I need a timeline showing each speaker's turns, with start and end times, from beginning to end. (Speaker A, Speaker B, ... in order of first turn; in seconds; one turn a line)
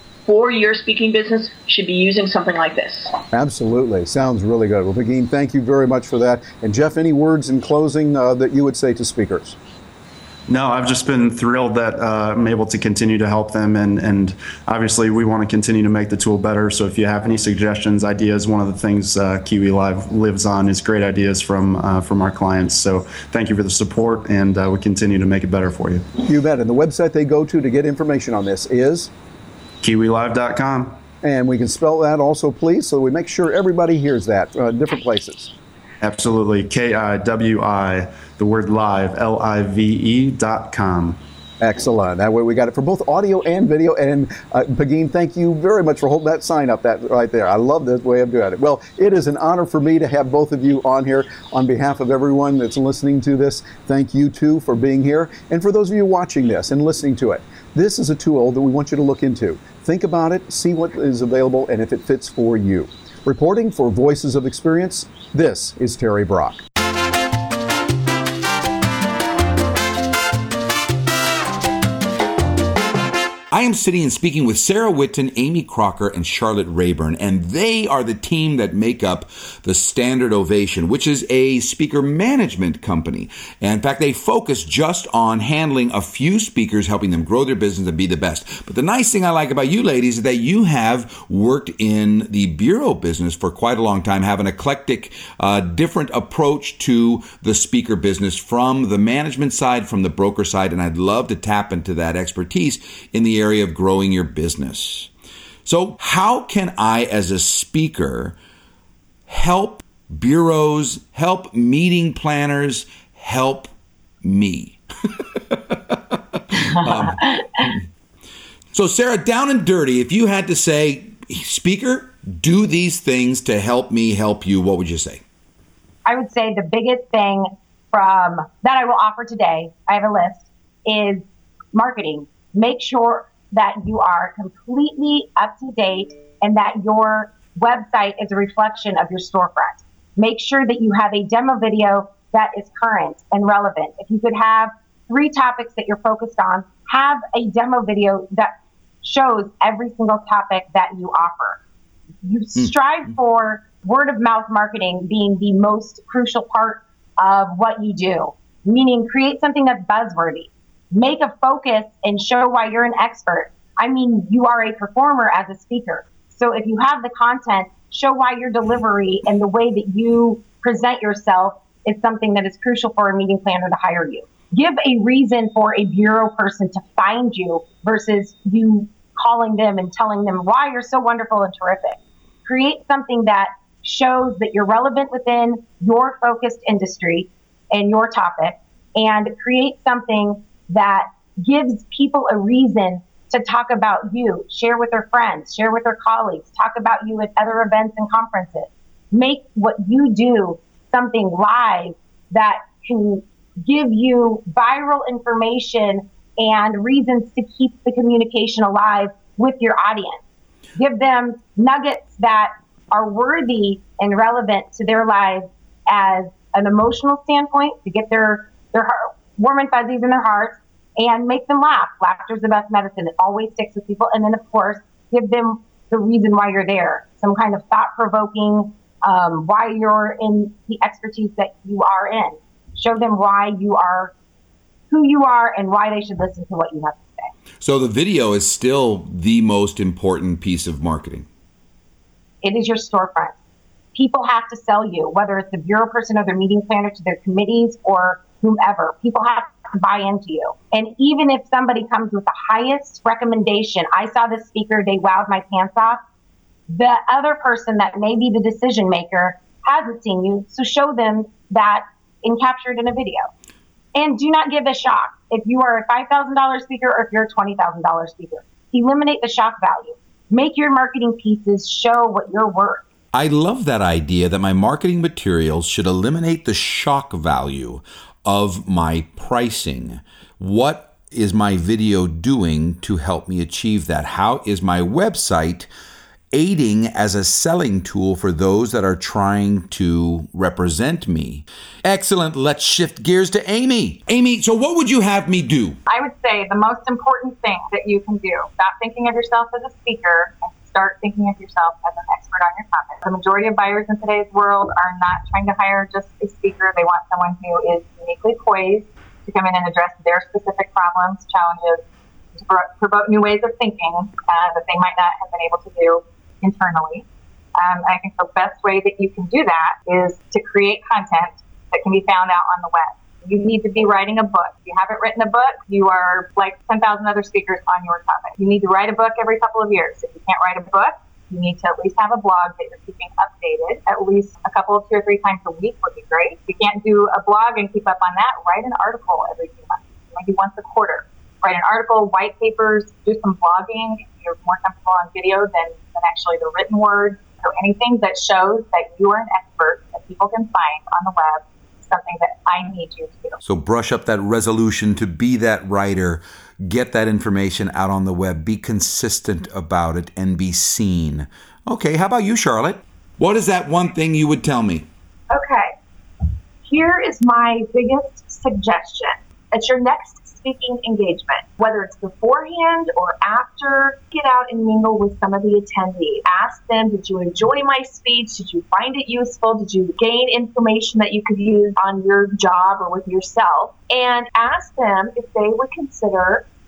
Speaker A: 0.3-3.2
Speaker B: 3.3-9.6
Speaker C: 10.5-26.1
Speaker B: 26.2-29.1
Speaker C: 29.8-31.0
Speaker B: 31.2-35.5
Speaker C: 36.0-41.2
Speaker B: 41.6-66.6
Speaker D: 73.5-105.1
Speaker D: 105.7-108.4
Speaker D: 109.3-113.7
Speaker D: 114.2-114.8
Speaker D: 115.5-116.0
Speaker D: 116.8-117.8
Speaker D: 118.7-125.2
Speaker E: 126.1-148.5
Speaker E: 149.0-151.6
Speaker E: 152.2-210.2
Speaker E: 210.8-234.1
Speaker E: 234.9-237.3
Speaker D: 237.6-241.3
Speaker E: 242.4-243.3
Speaker E: 243.9-256.0
Speaker E: 256.7-263.3
Speaker E: 263.9-272.8
Speaker D: 273.1-285.7
Speaker D: 286.3-295.8
Speaker F: 295.9-317.1
Speaker F: 317.6-353.4
Speaker D: 353.4-364.9
Speaker G: 365.3-365.7
Speaker G: 366.6-386.5